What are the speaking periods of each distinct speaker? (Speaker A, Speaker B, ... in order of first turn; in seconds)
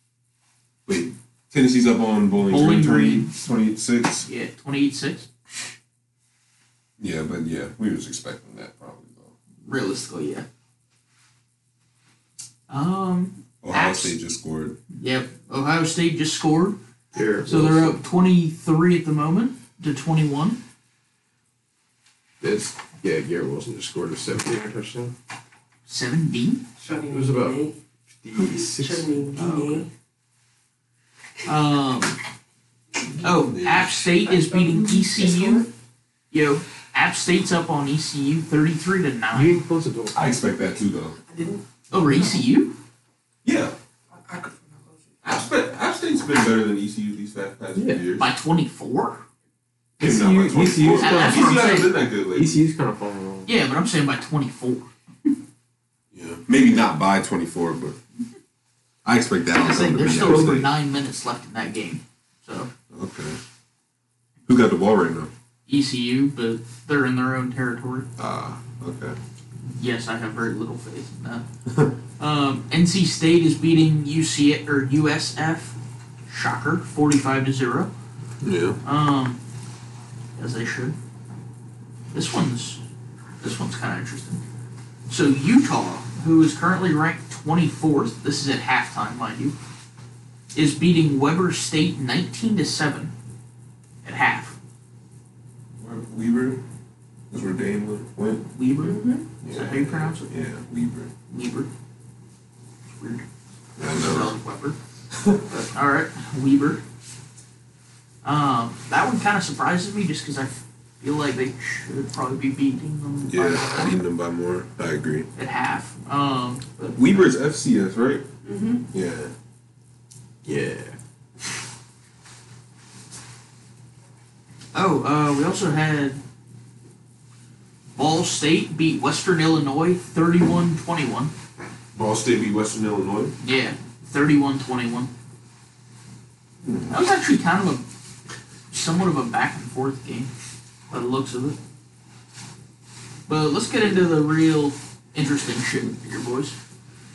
Speaker A: 0.8-4.2, 7.0-9.3, 13.6-14.8, 33.2-34.0, 40.1-41.2, 43.4-43.7, 45.2-48.3, 50.0-52.6, 56.1-58.0, 59.0-60.7, 62.9-63.4, 64.5-65.3, 68.2-69.2, 78.4-78.8, 95.8-96.6, 97.3-98.5, 99.4-101.1, 103.8-104.3, 113.3-115.3, 116.9-118.2, 118.9-119.3, 131.9-133.3, 136.6-136.9
Speaker B: 2.5-3.3, 4.2-5.3, 9.6-10.4, 12.7-14.1, 15.0-16.8, 17.4-20.6, 25.9-26.6, 29.4-29.9, 31.4-32.2, 33.2-35.6, 36.3-39.6, 41.9-42.8, 48.2-49.2, 50.9-52.0, 53.5-54.9, 59.5-62.7, 65.7-68.1, 69.7-71.4, 72.2-75.8, 76.3-77.9, 78.8-79.4, 80.3-81.0, 82.1-82.8, 83.4-84.4, 85.1-89.5, 90.5-93.1, 94.0-94.5, 98.5-100.3, 101.3-101.7, 102.9-103.2, 103.8-104.8, 105.7-106.8, 108.2-114.0, 115.3-117.3, 124.7-126.2, 128.0-131.3, 133.4-135.1, 136.9-137.8, 138.7-140.3, 140.9-141.6, 143.3-146.5
Speaker C: 17.1-18.0, 22.4-25.1, 27.1-27.6, 28.2-29.2, 39.3-40.2, 47.7-48.0, 50.0-53.5, 60.2-60.6, 120.4-121.0
Speaker D: 26.8-27.7, 28.3-29.9, 34.2-35.7, 41.3-42.0, 44.1-45.4, 98.8-99.2, 118.4-118.8